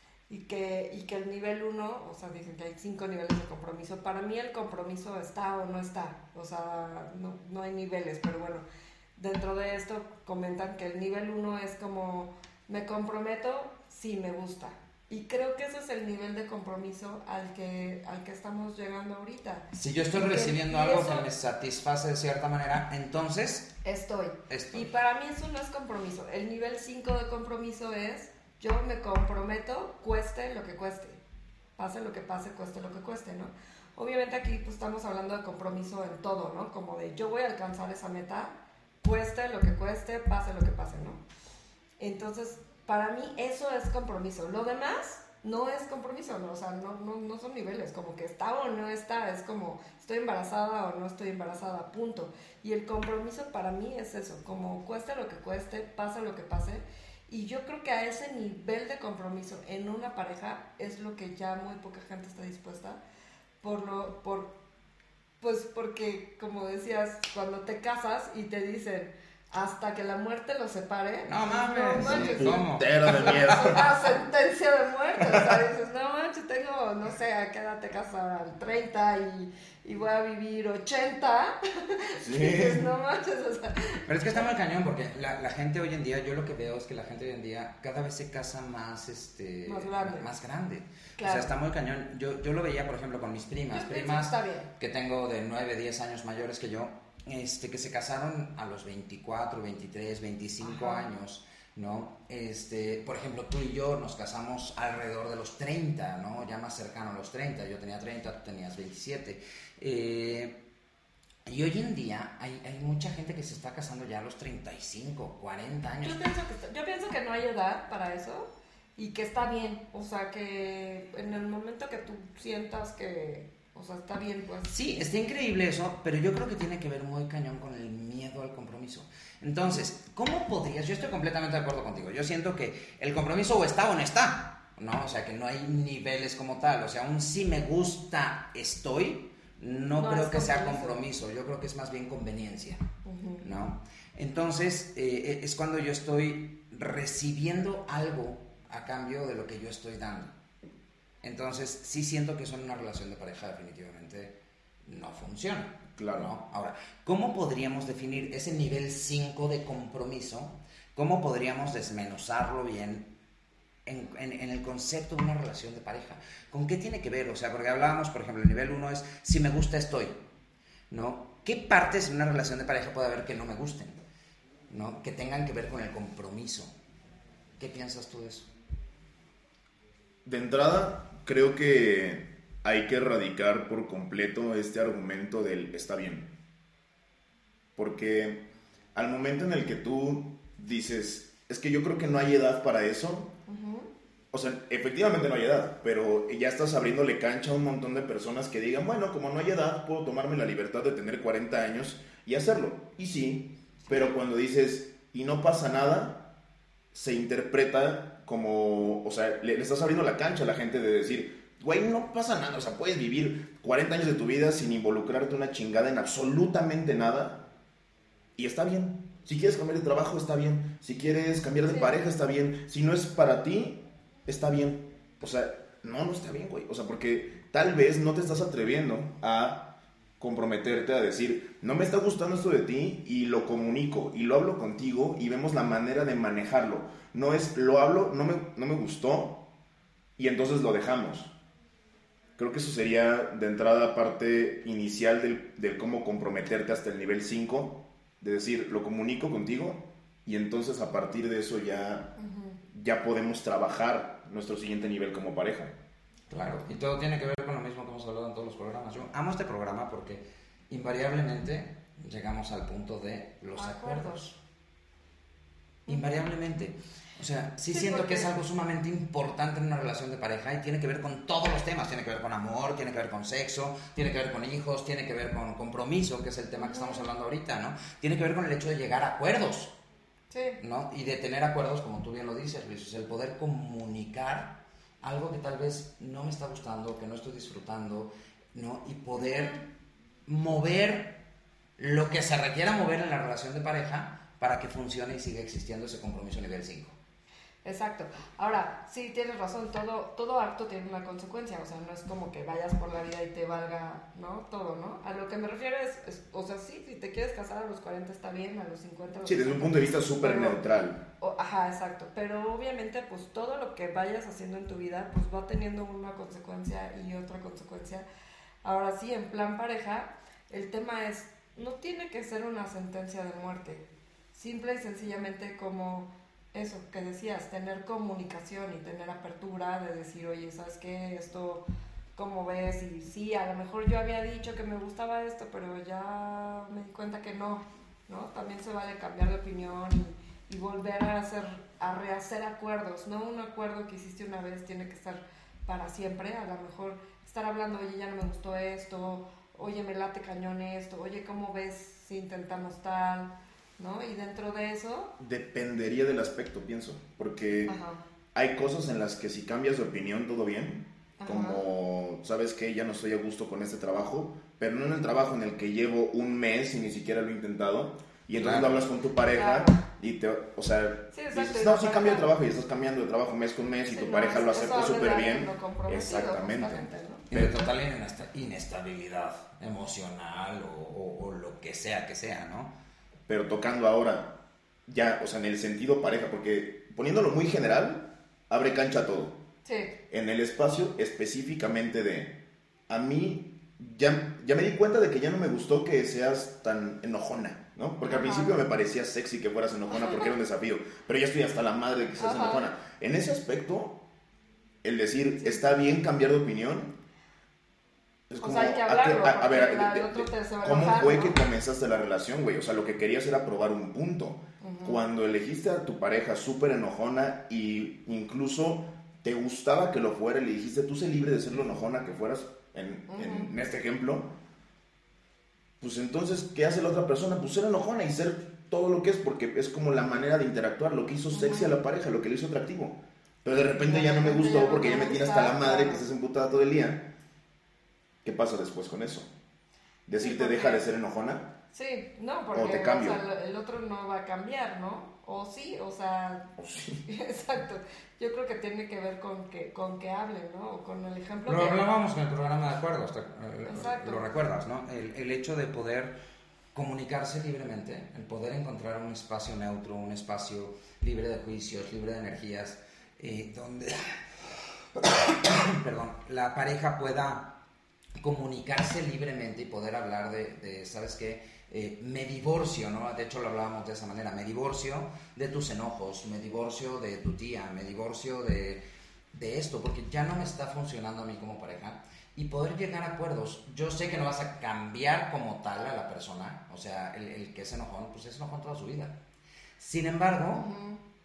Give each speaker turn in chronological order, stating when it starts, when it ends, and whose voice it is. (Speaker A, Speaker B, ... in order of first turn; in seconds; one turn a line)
Speaker A: 0.3-8.7
Speaker A: 9.2-21.3
Speaker B: 19.7-23.7
Speaker A: 23.8-31.2
Speaker B: 24.5-24.9
Speaker A: 31.8-41.2
Speaker A: 42.0-63.0
Speaker A: 63.6-64.5
Speaker A: 65.4-84.5
Speaker B: 71.2-73.8
Speaker C: 72.0-73.9
Speaker C: 82.2-82.9
Speaker B: 84.1-110.6
Speaker A: 89.7-90.3
Speaker A: 91.2-91.5
Speaker A: 93.7-94.7
Speaker A: 100.6-101.1
Speaker B: 111.5-116.2
Speaker A: 116.0-124.7
Speaker B: 124.7-142.8
Speaker A: 140.0-141.0
Speaker A: 143.1-143.4
Speaker B: 143.4-150.3
Speaker B: 151.2-154.3
Speaker B: 154.9-163.1
Speaker C: 156.0-156.3
Speaker B: 163.9-170.2
Speaker B: 170.9-174.0
Speaker B: 174.7-176.7
Speaker B: 177.6-178.5
Speaker C: 180.2-186.3
Speaker C: 187.8-193.3
Speaker A: 193.5-193.9
Speaker C: 194.3-206.3
Speaker C: 206.9-217.5
Speaker C: 218.4-239.5
Speaker A: 221.7-222.0
Speaker C: 240.2-241.3
Speaker C: 242.4-252.1
Speaker A: 252.2-252.6
Speaker C: 252.7-255.7
Speaker B: 256.3-264.4
Speaker A: 263.6-264.2
Speaker A: 265.9-266.2
Speaker B: 265.9-279.7
Speaker A: 267.7-268.3
Speaker A: 276.6-277.1
Speaker A: 280.3-280.6
Speaker B: 280.6-289.6
Speaker A: 289.2-289.6
Speaker B: 290.3-291.2
Speaker B: 291.8-296.9
Speaker A: 297.6-310.6
Speaker C: 309.2-311.0
Speaker A: 311.2-318.1
Speaker A: 318.6-331.6
Speaker A: 332.2-355.1
Speaker C: 355.2-357.7
Speaker A: 357.7-358.0
Speaker C: 358.3-377.6
Speaker A: 361.2-361.6
Speaker B: 368.3-368.9
Speaker A: 369.3-369.8
Speaker A: 371.1-372.3
Speaker A: 373.9-377.3
Speaker B: 377.3-382.7
Speaker C: 383.3-389.4
Speaker A: 389.6-389.9
Speaker C: 390.1-392.4
Speaker C: 392.9-404.0
Speaker A: 398.1-398.6
Speaker A: 399.9-400.3
Speaker A: 402.2-402.7
Speaker C: 404.8-406.9
Speaker C: 408.3-424.4
Speaker A: 408.4-411.4
Speaker A: 414.6-415.0
Speaker A: 423.1-423.5
Speaker C: 425.8-437.1
Speaker A: 431.3-431.8
Speaker A: 433.6-436.0
Speaker C: 438.2-439.3
Speaker C: 440.1-441.5
Speaker A: 440.2-440.8
Speaker A: 441.7-446.5
Speaker C: 442.5-443.2
Speaker C: 446.6-447.0
Speaker A: 447.1-451.8
Speaker B: 451.5-456.2
Speaker A: 453.7-454.2
Speaker B: 456.7-467.5
Speaker B: 468.2-478.8
Speaker B: 479.3-489.2
Speaker B: 489.8-490.7
Speaker A: 490.5-491.0